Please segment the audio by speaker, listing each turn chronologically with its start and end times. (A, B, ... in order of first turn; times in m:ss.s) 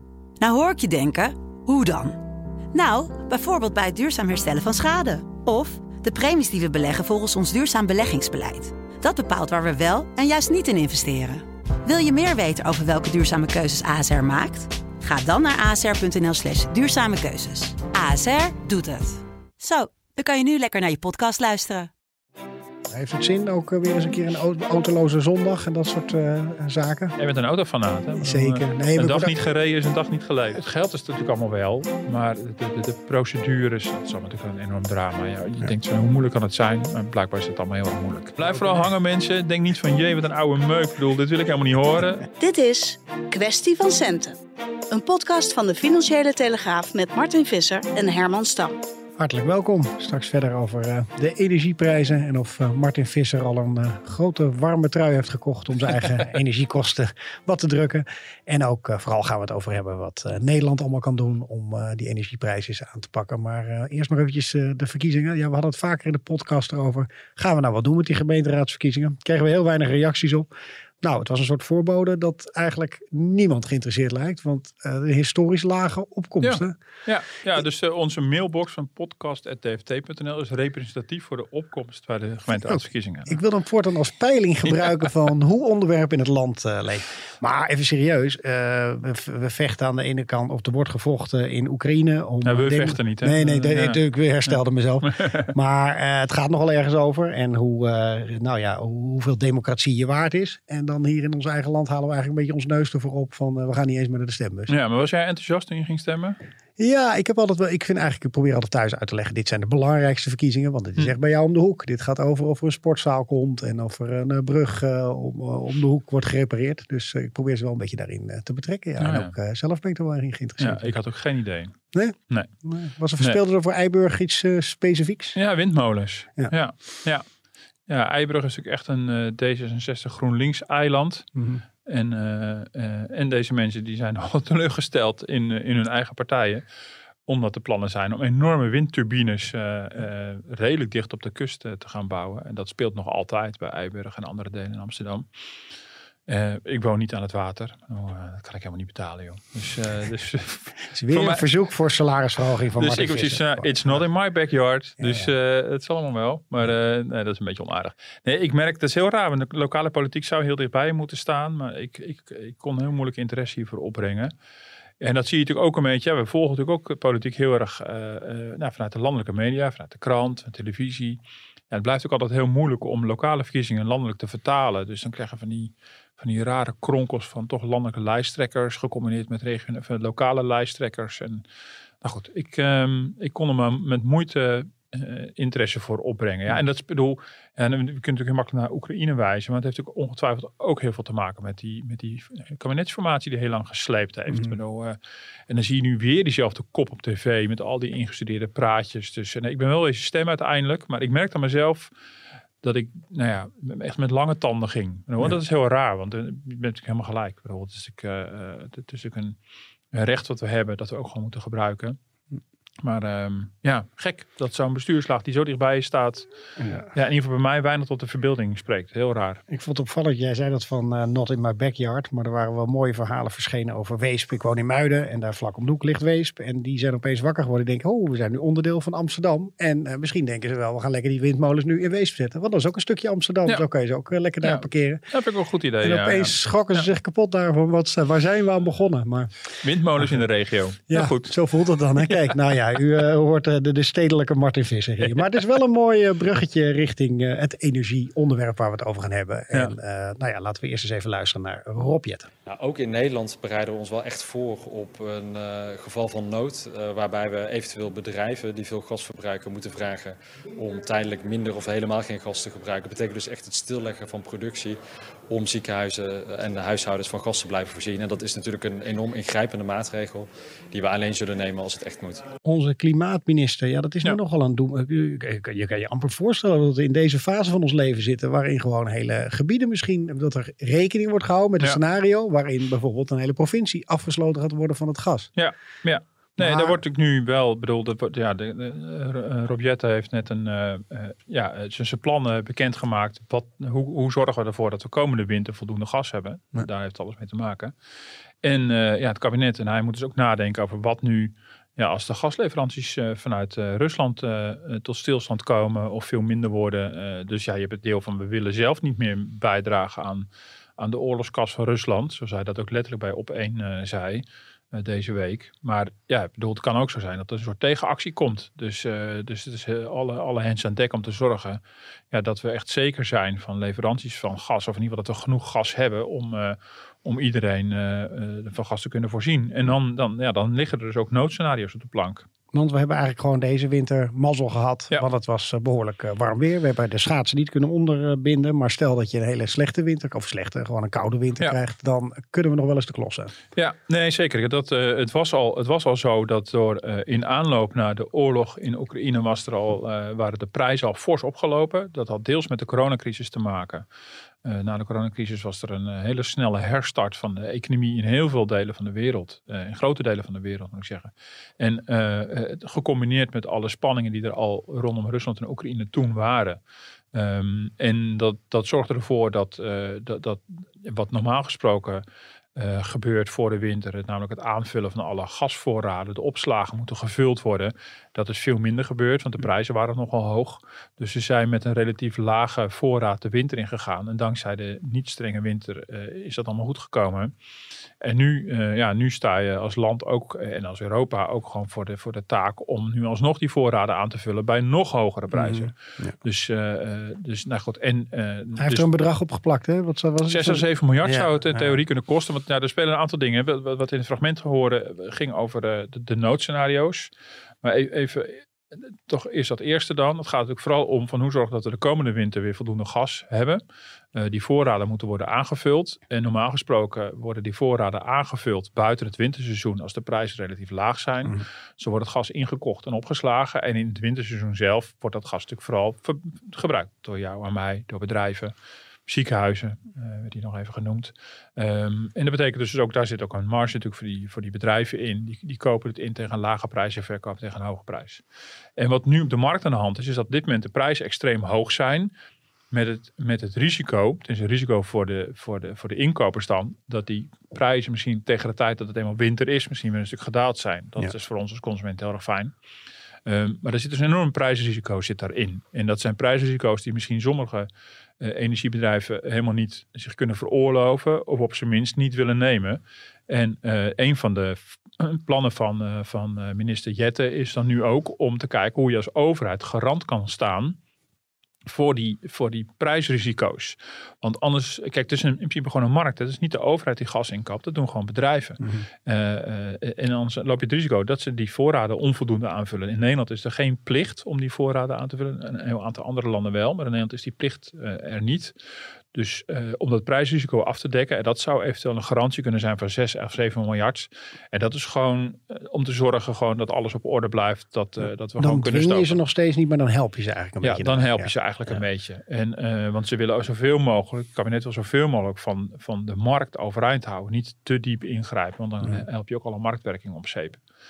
0:00.4-0:02.2 A
0:02.7-0:21.9 A
0:22.9-0:27.1 B
0:27.2-0:42.3 C
0:28.1-0:29.4 B
0:42.4-0:44.4 D
0:44.9-0:48.8 D
0:49.2-1:10.5 B
1:11.0-1:16.8 B
1:16.4-1:23.4 C
1:22.6-1:44.7 B
1:24.7-1:25.1 C
1:32.4-1:35.5 C
1:44.7-1:46.4 C
1:46.8-2:00.9 B
1:59.0-1:59.3 C
2:00.6-2:01.7 C
2:01.9-2:05.4 B
2:05.3-2:07.2 C
2:07.9-2:11.3 C
2:11.3-2:11.6 B
2:11.8-2:16.6 C
2:17.2-2:25.2 C
2:26.3-2:31.5 C
2:30.9-2:34.0 B
2:32.8-2:44.3 C
2:35.0-2:35.3 B
2:45.0-2:51.2 C
2:51.7-3:01.4 C
3:02.0-3:21.9 C
3:22.6-3:29.4 C
3:29.9-3:32.0 C
3:32.8-3:36.3 C
3:36.6-3:36.9 B
3:36.8-3:39.4 C
3:39.5-3:55.0 B
3:54.4-3:56.9 C
3:55.8-3:59.3 B
3:59.6-4:01.3 C
4:00.9-4:12.3 B
4:12.4-4:24.8 E
4:25.3-4:32.3 E
4:32.4-4:45.3 B
4:45.4-4:57.7 C
4:46.4-4:46.8 B
4:58.4-5:21.6 C
5:22.1-5:32.3 C
5:32.5-5:43.3 B
5:43.5-5:53.8 C
5:54.4-6:06.6 C
6:07.1-6:12.0 C
6:12.6-6:27.3 C
6:28.0-6:38.9 C
6:35.3-6:36.2 B
6:38.6-6:41.7 B
6:40.2-6:47.1 C
6:47.6-6:53.6 C
6:54.1-7:08.5 C
7:09.1-7:18.2 C
7:18.8-7:22.1 C
7:22.7-7:32.5 C
7:33.2-7:37.7 C
7:38.2-7:50.8 C
7:51.6-8:08.5 C
8:09.1-8:19.2 C
8:18.4-8:21.8 B
8:20.6-8:30.6 C